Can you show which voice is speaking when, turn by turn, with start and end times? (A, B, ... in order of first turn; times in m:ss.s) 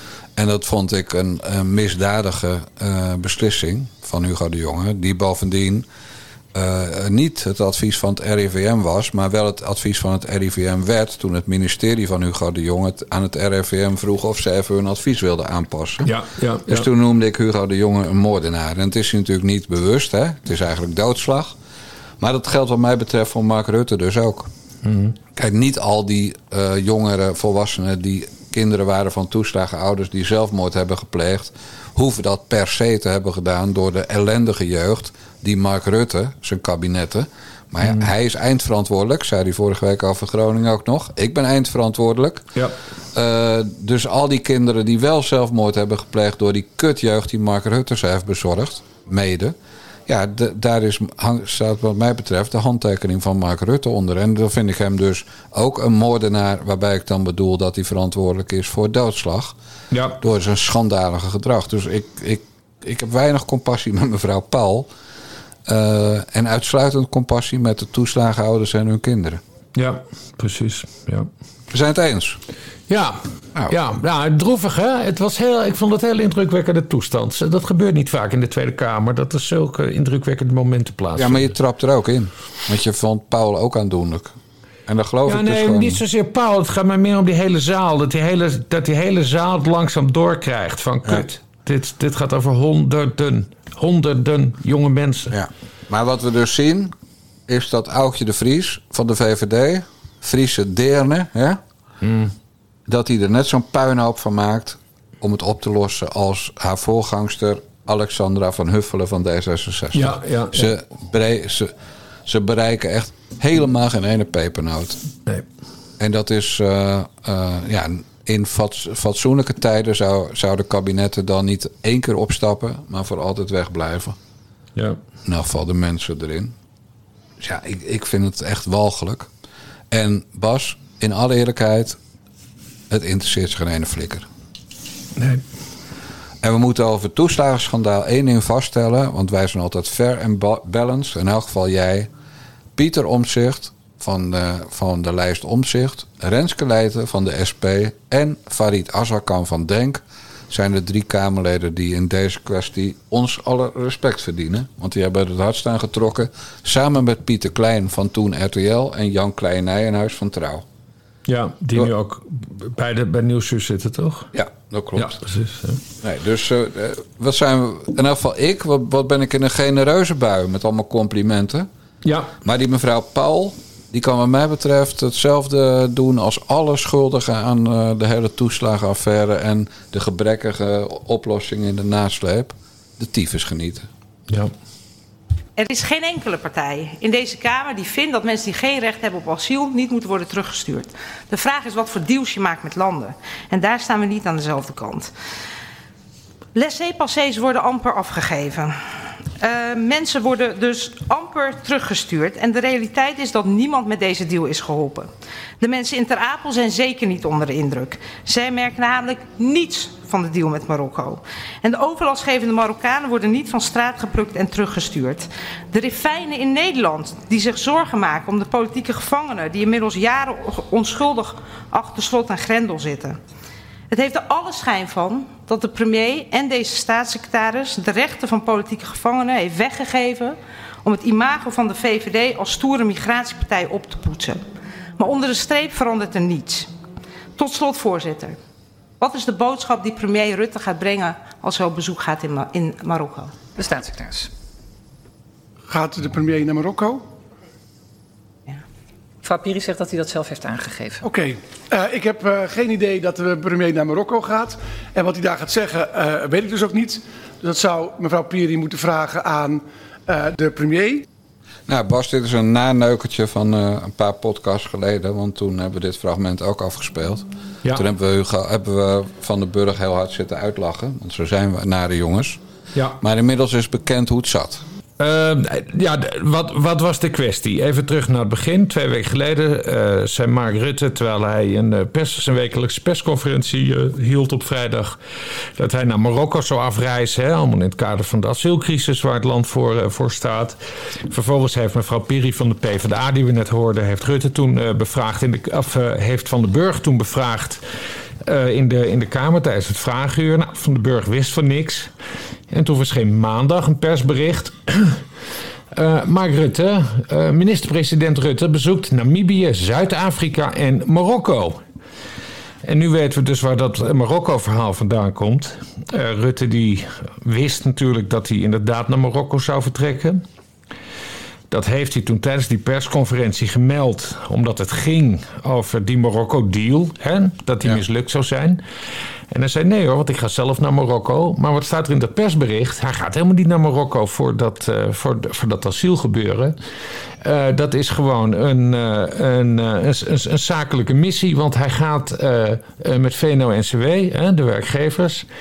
0:00.4-0:05.9 A
0:06.5-0:16.1 A
0:16.0-0:16.9 B
0:16.6-0:21.6 A
0:22.2-0:24.5 A
0:24.8-0:25.1 B
0:25.3-0:42.5 A
0:37.8-0:38.1 B
0:43.1-0:49.6 A
0:50.1-0:59.6 A
0:59.9-1:00.2 B
1:00.2-1:04.9 A
1:05.7-1:09.4 A
1:09.8-1:11.3 B
1:11.7-1:12.4 A
1:12.9-1:21.5 B
1:21.2-1:24.3 A
1:24.9-1:26.0 A
1:25.2-1:35.3 B
1:35.3-1:36.9 A
1:37.5-1:41.6 A
1:42.0-1:42.3 B
1:42.9-1:51.7 A
1:49.9-1:50.7 B
1:52.2-1:55.0 A
1:56.0-2:04.2 A
2:05.2-2:06.5 A
2:07.4-2:09.3 A
2:09.9-2:12.0 A
2:12.9-2:14.3 A
2:15.2-2:15.4 B
2:16.4-2:22.1 A
2:22.8-2:40.6 A
2:41.3-2:44.3 B
2:44.3-2:45.2 A
2:45.0-2:45.8 B
2:46.0-2:51.7 A
2:52.0-2:52.3 B
2:52.4-3:03.9 A
3:05.6-3:15.1 C
3:16.5-3:18.8 C
3:19.4-3:43.2 C
3:43.9-3:54.4 C
3:55.0-3:56.7 C
3:57.4-3:58.4 C
3:59.0-4:03.4 C
4:03.5-4:04.3 D
4:05.7-4:07.0 E
4:09.2-4:11.0 D
4:11.0-4:21.0 E
4:21.7-4:32.4 A
4:32.7-4:33.0 B
4:33.0-4:34.6 A
4:35.0-4:45.0 B
4:45.6-4:50.6 B
4:51.1-4:57.6 B
4:58.2-5:01.9 B
5:02.5-5:05.0 B
5:05.7-5:11.6 B
5:12.6-5:20.2 B
5:21.5-5:28.6 B
5:29.3-5:36.5 B
5:37.2-5:45.2 B